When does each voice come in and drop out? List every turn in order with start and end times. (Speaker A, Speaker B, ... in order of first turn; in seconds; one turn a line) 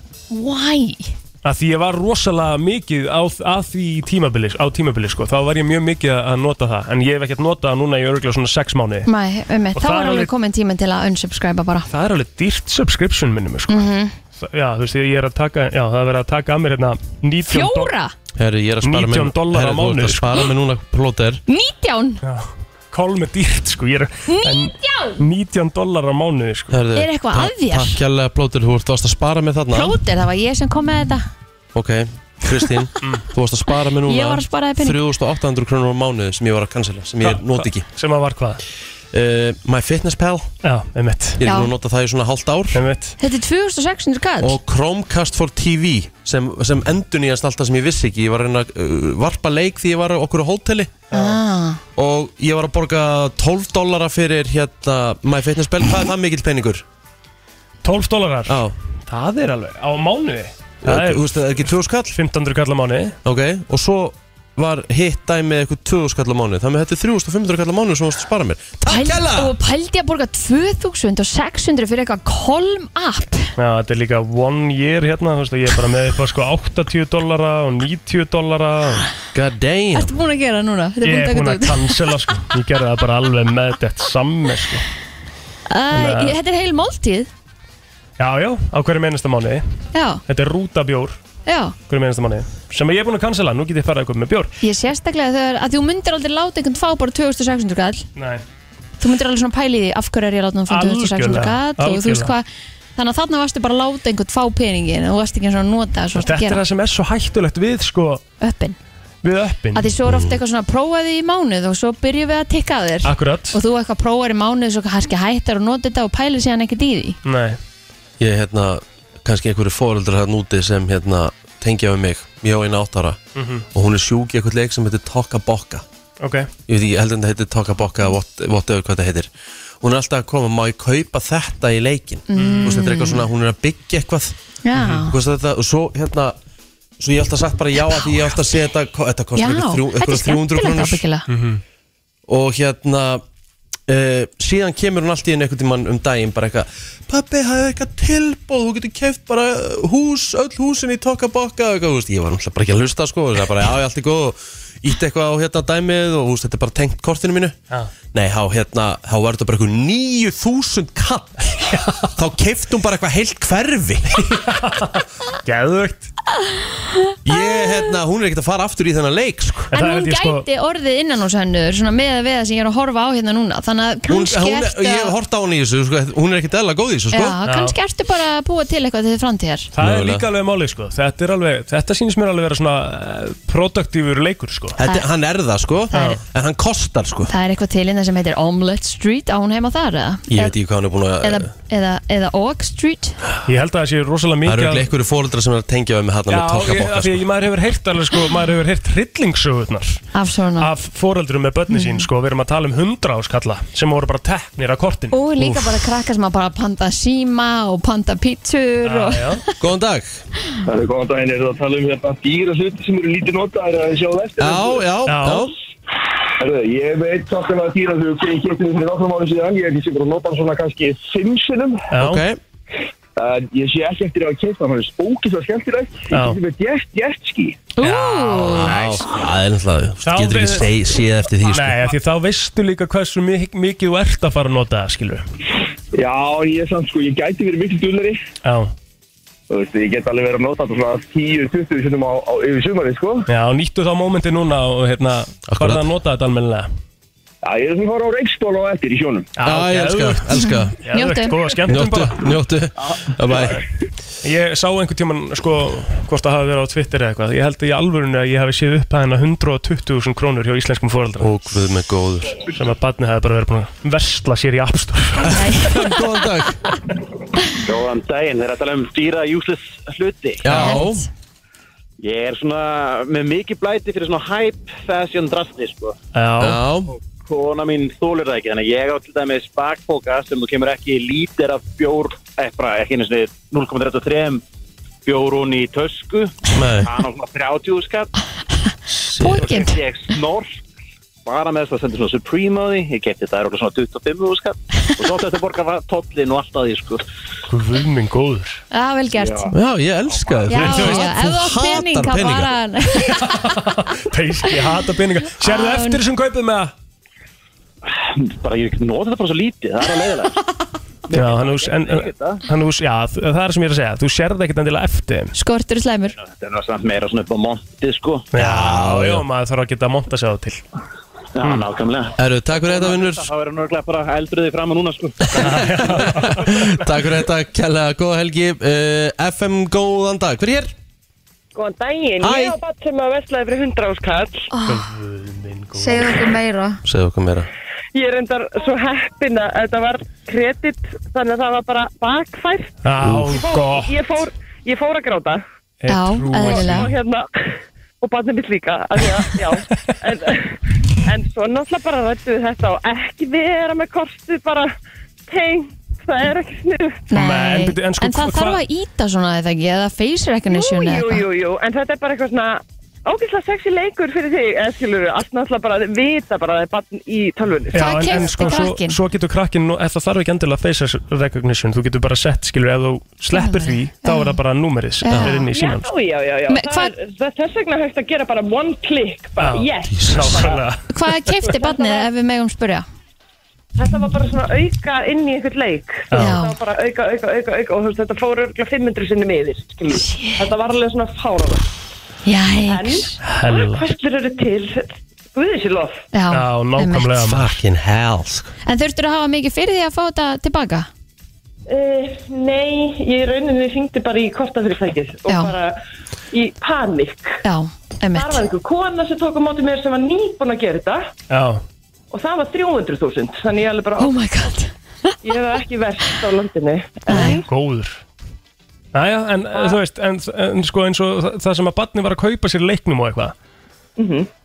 Speaker A: 0.3-1.1
Speaker B: 1.4-9.1
Speaker A: 9.1-11.9
Speaker B: 9.7-10.3
Speaker B: 11.9-17.9
Speaker A: 13.7-14.1
Speaker A: 17.5-18.1
Speaker C: 18.4-21.4
Speaker B: 18.8-20.5
Speaker A: 21.5-22.2
Speaker B: 22.2-26.8
Speaker A: 24.3-25.2
Speaker C: 26.7-30.0
Speaker A: 26.9-28.0
Speaker A: 29.7-31.2
Speaker C: 31.7-37.8
Speaker A: 34.0-35.0
Speaker B: 37.2-38.6
Speaker C: 39.1-40.5
Speaker B: 40.6-41.4
Speaker C: 41.4-42.8
Speaker A: 41.4-41.7
Speaker B: 42.7-43.1
Speaker A: 43.2-44.6
Speaker C: 44.4-51.0
Speaker B: 51.1-51.4
Speaker A: 51.1-51.8
Speaker C: 52.0-56.8
Speaker B: 57.8-61.4
Speaker C: 58.5-58.8
Speaker C: 60.8-62.1
Speaker B: 62.1-63.1
Speaker C: 63.2-69.5
Speaker A: 68.8-73.5
Speaker B: 73.6-79.0
Speaker C: 79.3-80.1
Speaker A: 79.9-82.0
Speaker B: 81.0-84.9
Speaker A: 85.7-87.3
Speaker B: 85.9-86.3
Speaker B: 88.2-89.6
Speaker A: 89.9-90.2
Speaker B: 90.3-91.2
Speaker A: 91.5-91.7
Speaker B: 91.9-94.5
Speaker A: 94.6-98.0
Speaker B: 98.2-98.4
Speaker A: 99.0-106.6
Speaker B: 100.7-102.3
Speaker B: 106.1-108.2
Speaker A: 108.4-108.8
Speaker B: 109.2-109.9
Speaker A: 109.7-117.2
Speaker C: 110.0-110.4
Speaker B: 113.0-113.6
Speaker B: 117.2-117.6
Speaker C: 118.2-123.2
Speaker B: 123.3-123.6
Speaker C: 123.7-125.8
Speaker B: 126.2-126.5
Speaker C: 126.7-129.3
Speaker C: 129.8-134.3
Speaker A: 132.3-133.2
Speaker B: 132.3-132.8
Speaker A: 134.6-135.1
Speaker B: 134.7-135.1
Speaker C: 135.0-136.3
Speaker C: 137.0-141.0
Speaker A: 139.3-141.3
Speaker B: 141.3-141.6
Speaker C: 142.3-143.2
Speaker C: 143.9-157.6
Speaker C: 158.1-164.3
Speaker B: 161.7-162.1
Speaker B: 164.2-166.1
Speaker A: 166.8-167.9
Speaker C: 167.2-169.7
Speaker B: 169.7-170.4
Speaker A: 169.7-175.1
Speaker C: 174.1-177.4
Speaker A: 177.1-179.7
Speaker B: 177.4-177.8
Speaker B: 179.7-184.8
Speaker C: 179.8-180.2
Speaker C: 184.8-187.3
Speaker A: 187.3-190.5
Speaker C: 190.3-191.5
Speaker A: 191.2-193.2
Speaker B: 193.4-194.9
Speaker C: 194.4-197.2
Speaker B: 196.3-200.0
Speaker A: 200.1-200.7
Speaker B: 200.6-205.2
Speaker A: 201.7-202.1
Speaker A: 205.1-209.4
Speaker B: 208.8-209.4
Speaker C: 209.6-210.2
Speaker D: 210.7-214.8
Speaker C: 214.4-215.6
Speaker B: 215.0-215.5
Speaker D: 216.4-221.9
Speaker C: 221.9-222.4
Speaker B: 221.9-222.2
Speaker D: 223.2-227.7
Speaker B: 226.1-226.4
Speaker A: 227.8-228.7
Speaker B: 227.8-229.0
Speaker C: 228.4-231.9
Speaker B: 230.0-230.8
Speaker B: 231.4-235.2
Speaker D: 235.9-238.2
Speaker B: 238.4-238.7
Speaker D: 239.5-243.3
Speaker B: 243.3-246.7
Speaker C: 245.5-245.8
Speaker D: 247.4-249.3
Speaker B: 249.4-252.2
Speaker C: 249.4-250.8
Speaker A: 250.4-251.3
Speaker C: 251.7-253.6
Speaker B: 254.2-261.3
Speaker C: 261.2-262.4
Speaker B: 262.5-265.5
Speaker C: 265.2-266.6
Speaker E: 267.6-270.7
Speaker C: 270.4-271.1
Speaker A: 270.6-271.0
Speaker E: 272.0-275.9
Speaker B: 276.1-276.6
Speaker C: 276.4-276.9
Speaker E: 277.2-284.4
Speaker E: 285.0-288.1
Speaker C: 286.5-286.9
Speaker A: 289.2-289.8
Speaker E: 289.2-290.6
Speaker E: 291.2-297.0
Speaker B: 297.5-298.6
Speaker A: 298.7-299.5
Speaker E: 299.1-299.5
Speaker C: 299.5-302.5
Speaker E: 300.1-300.5
Speaker A: 300.5-303.3
Speaker B: 300.6-301.0
Speaker B: 303.0-306.7
Speaker A: 305.4-306.0
Speaker E: 308.2-310.4
Speaker E: 311.1-312.4
Speaker B: 311.1-315.3
Speaker A: 315.3-316.1
Speaker E: 316.1-318.3
Speaker B: 318.3-320.6
Speaker C: 318.4-319.2
Speaker E: 321.4-326.1
Speaker B: 321.4-321.6
Speaker C: 322.2-323.3
Speaker B: 325.4-326.8
Speaker C: 325.4-330.7
Speaker F: 331.5-334.5
Speaker C: 332.2-332.6
Speaker A: 334.5-334.8
Speaker B: 334.6-336.2
Speaker A: 335.7-336.8
Speaker C: 336.8-337.5
Speaker F: 337.9-342.8
Speaker B: 342.8-343.9
Speaker F: 343.3-345.4
Speaker B: 345.8-346.9
Speaker A: 345.9-346.9
Speaker F: 346.3-347.3
Speaker F: 348.0-354.7
Speaker F: 355.3-357.0
Speaker A: 357.1-361.2
Speaker B: 357.1-358.6
Speaker F: 360.5-368.6
Speaker B: 367.7-375.9
Speaker A: 367.7-369.0
Speaker A: 373.3-374.4
Speaker A: 375.0-375.4
Speaker F: 375.5-380.6
Speaker A: 376.5-376.9
Speaker B: 379.4-380.8
Speaker C: 379.9-380.4
Speaker A: 380.9-382.8
Speaker F: 381.4-382.1
Speaker F: 383.8-391.6
Speaker B: 386.1-386.4
Speaker A: 386.1-386.6
Speaker A: 389.9-390.5
Speaker A: 392.2-393.1
Speaker F: 392.7-396.0
Speaker B: 393.2-393.9
Speaker A: 396.1-397.2
Speaker B: 396.3-397.4
Speaker C: 397.2-398.5
Speaker A: 398.6-400.9
Speaker F: 401.7-405.7
Speaker A: 405.3-405.5
Speaker F: 406.3-407.4
Speaker A: 407.4-408.5
Speaker F: 408.1-411.1
Speaker B: 411.3-411.6
Speaker F: 412.1-414.2
Speaker A: 414.0-415.2
Speaker F: 415.2-417.5
Speaker A: 417.1-417.4
Speaker B: 417.1-418.0
Speaker B: 418.9-423.3
Speaker F: 419.5-419.8
Speaker F: 424.0-424.3